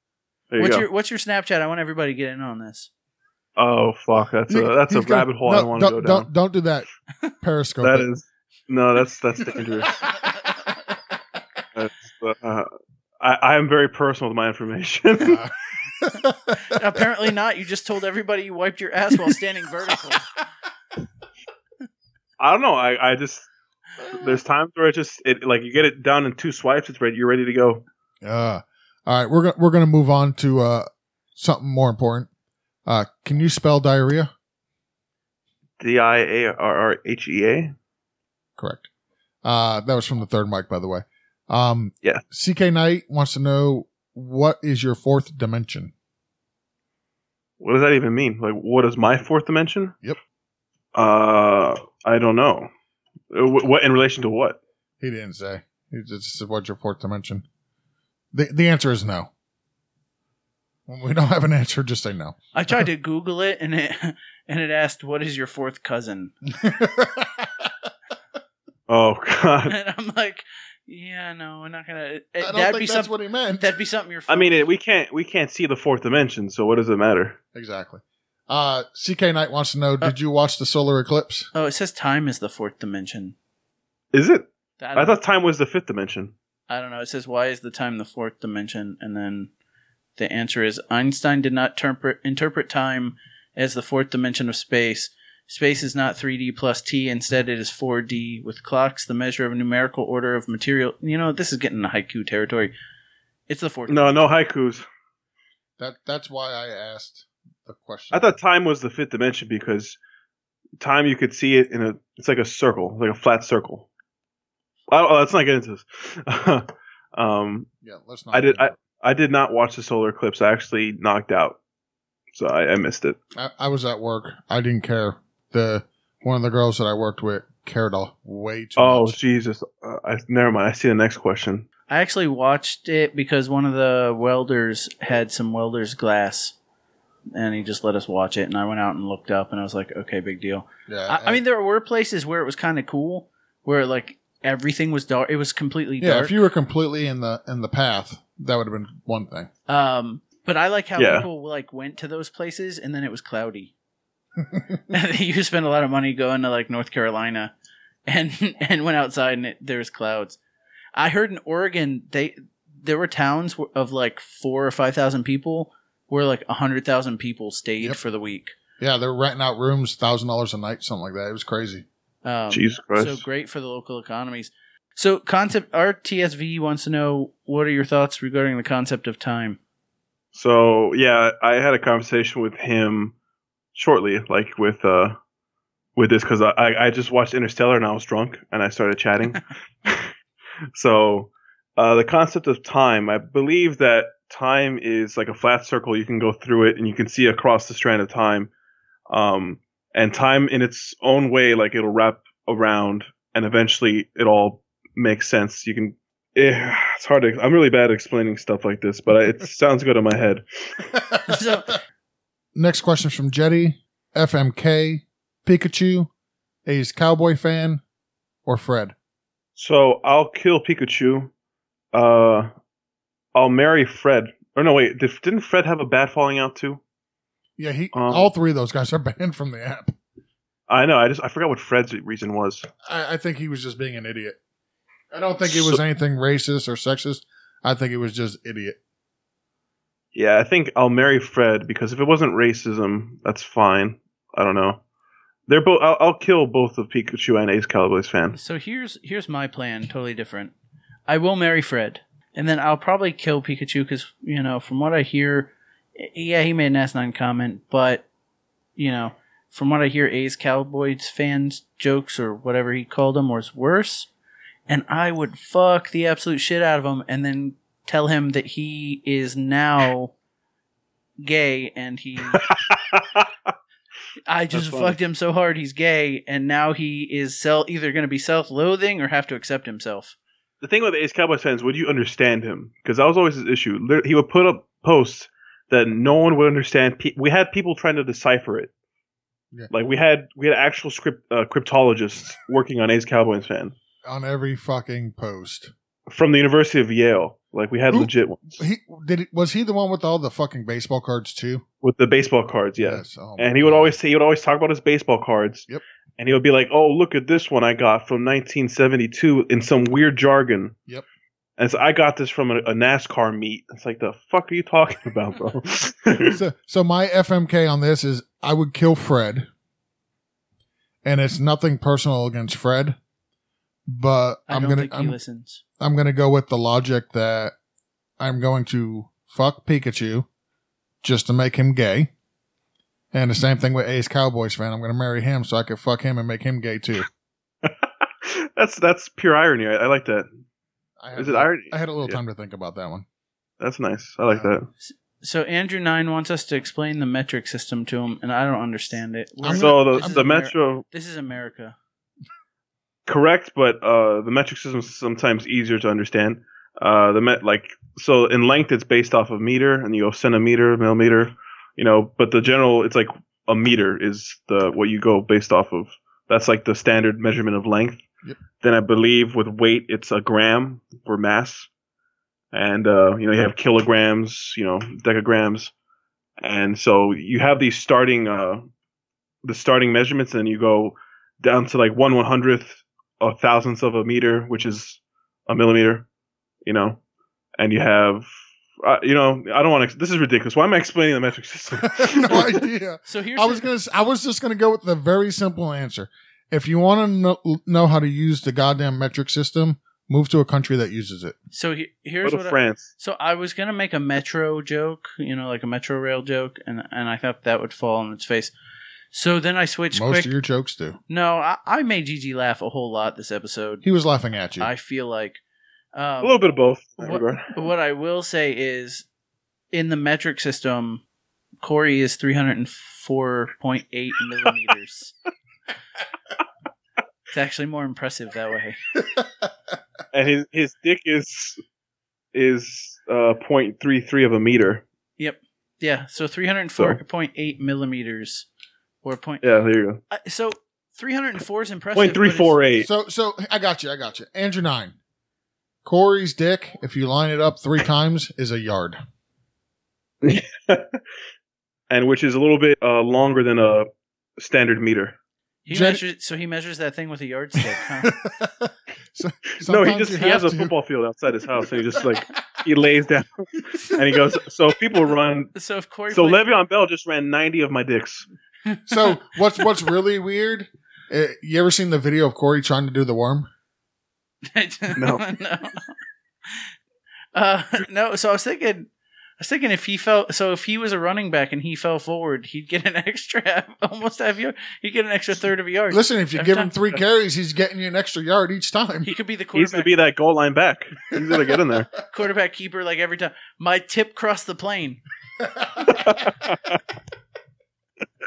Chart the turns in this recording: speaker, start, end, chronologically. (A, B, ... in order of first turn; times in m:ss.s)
0:00.5-0:00.8 A
0:00.6-0:02.9 B
0:03.6-0:06.3 A
0:04.5-0:06.9 C
0:07.4-0:08.1 C
0:07.8-0:10.0 A
0:11.8-0:12.7 A
0:13.2-0:15.4 A
0:15.2-0:16.8 C
0:16.6-0:20.3 B
0:22.4-0:23.5 A
0:24.1-0:27.8 A
0:28.2-0:32.3 C
0:32.8-0:34.3 C
0:35.8-0:37.7 A
0:38.6-0:38.9 C
0:39.4-0:45.9 C
0:47.6-0:49.9 A
0:50.9-0:52.7 A
0:53.3-0:54.6 A
0:55.0-0:57.4 C
0:58.3-0:59.3 C
1:00.9-1:02.4 C
1:02.5-1:06.3 B
1:06.5-1:07.9 C
1:08.9-1:09.7 A
1:09.7-1:14.6 B
1:12.4-1:13.7 C
1:14.3-1:17.4 A
1:17.5-1:21.5 C
1:21.5-1:23.3 B
1:24.1-1:26.3 A
1:24.8-1:25.2 B
1:26.7-1:29.5 B
1:30.2-1:42.7 B
1:43.5-1:44.1 B
1:43.9-1:44.8 A
1:45.8-1:48.4 C
1:48.1-1:50.0 A
1:50.8-1:53.9 A
1:54.9-1:57.7 A
1:57.8-1:58.7 C
1:58.3-2:01.6 A
2:02.3-2:03.2 A
2:03.4-2:09.2 C
2:08.8-2:11.7 A
2:11.9-2:16.5 B
2:17.3-2:26.3 B
2:20.9-2:21.4 C
2:26.0-2:29.5 C
2:29.7-2:33.7 B
2:31.0-2:31.3 A
2:34.9-2:37.5 B
2:38.1-2:40.4 B
2:41.0-2:48.5 B
2:48.8-2:51.8 C
2:52.2-2:59.6 B
2:52.5-2:53.2 A
3:00.3-3:03.1 A
3:03.7-3:05.2 A
3:06.0-3:10.1 A
3:10.7-3:18.5 A
3:19.1-3:30.4 A
3:31.3-3:31.8 B
3:32.5-3:36.1 C
3:36.6-3:37.8 C
3:38.4-3:38.9 C
3:39.6-3:41.3 A
3:41.9-3:42.5 A
3:43.3-3:46.8 A
3:47.6-3:49.9 C
3:47.9-3:48.3 A
3:50.7-3:52.7 A
3:52.8-3:54.4 C
3:55.1-3:58.8 C
3:55.4-3:55.8 A
4:00.1-4:04.8 A
4:05.5-4:08.4 A
4:08.3-4:10.5 B
4:11.1-4:18.0 B
4:18.8-4:24.1 B
4:24.7-4:30.1 B
4:31.2-4:32.4 B
4:32.3-4:33.3 A
4:34.3-4:40.1 B
4:34.5-4:35.0 A
4:40.6-4:48.7 A
4:49.7-4:53.7 A
4:54.0-4:55.7 C
4:56.1-4:58.6 A
4:57.9-5:01.6 C
5:01.8-5:05.7 A
5:02.8-5:03.9 C
5:06.2-5:10.7 A
5:11.6-5:16.4 A
5:16.3-5:19.5 C
5:21.0-5:23.0 C
5:23.9-5:25.2 C
5:24.5-5:25.6 B
5:25.8-5:27.5 C
5:28.2-5:30.3 C
5:31.0-5:32.1 C
5:33.1-5:37.1 C
5:37.6-5:40.3 A
5:41.0-5:43.0 C
5:41.1-5:42.2 A
5:43.6-5:44.7 A
5:44.9-5:51.8 B
5:49.4-5:50.2 C
5:49.4-5:50.8 A
5:53.1-6:08.0 A
6:08.6-6:11.7 A
6:12.5-6:15.7 A
6:16.4-6:18.7 A
6:19.4-6:26.0 A
6:26.6-6:27.0 A
6:27.6-6:28.3 A
6:28.8-6:32.6 A
6:31.8-6:41.4 C
6:33.0-6:33.6 B
6:41.5-6:48.5 B
6:42.2-6:42.9 A
6:49.1-6:50.3 B
6:49.9-6:51.0 C
6:51.1-6:53.8 B
6:53.8-6:54.7 C
6:54.6-6:55.4 B
6:55.9-6:56.3 B
6:56.2-6:57.5 A
6:57.0-6:59.0 B
6:59.7-7:01.0 B
7:01.6-7:05.1 B
7:07.3-7:08.8 B
7:10.1-7:11.6 A
7:12.3-7:14.8 A
7:15.2-7:18.4 B
7:19.0-7:19.4 B
7:19.4-7:20.0 A
7:20.1-7:22.6 B
7:22.0-7:22.9 A
7:22.8-7:25.0 C
7:25.8-7:29.0 C
7:30.2-7:31.0 A
7:31.9-7:35.2 A
7:35.6-7:38.2 B
7:35.7-7:36.0 C
7:37.6-7:40.7 C
7:39.5-7:45.5 A
7:43.6-7:44.4 C
7:45.5-7:46.4 B
7:46.1-7:48.2 A
7:48.7-7:49.6 B
7:48.9-7:53.5 C
7:54.5-7:55.9 B
7:55.0-7:55.2 A
7:57.3-7:58.9 B
7:59.4-8:06.7 B
8:05.9-8:09.1 C
8:09.0-8:09.9 B
8:09.5-8:11.9 A
8:11.2-8:11.6 C
8:12.1-8:15.0 B
8:15.4-8:15.9 C
8:15.8-8:16.8 A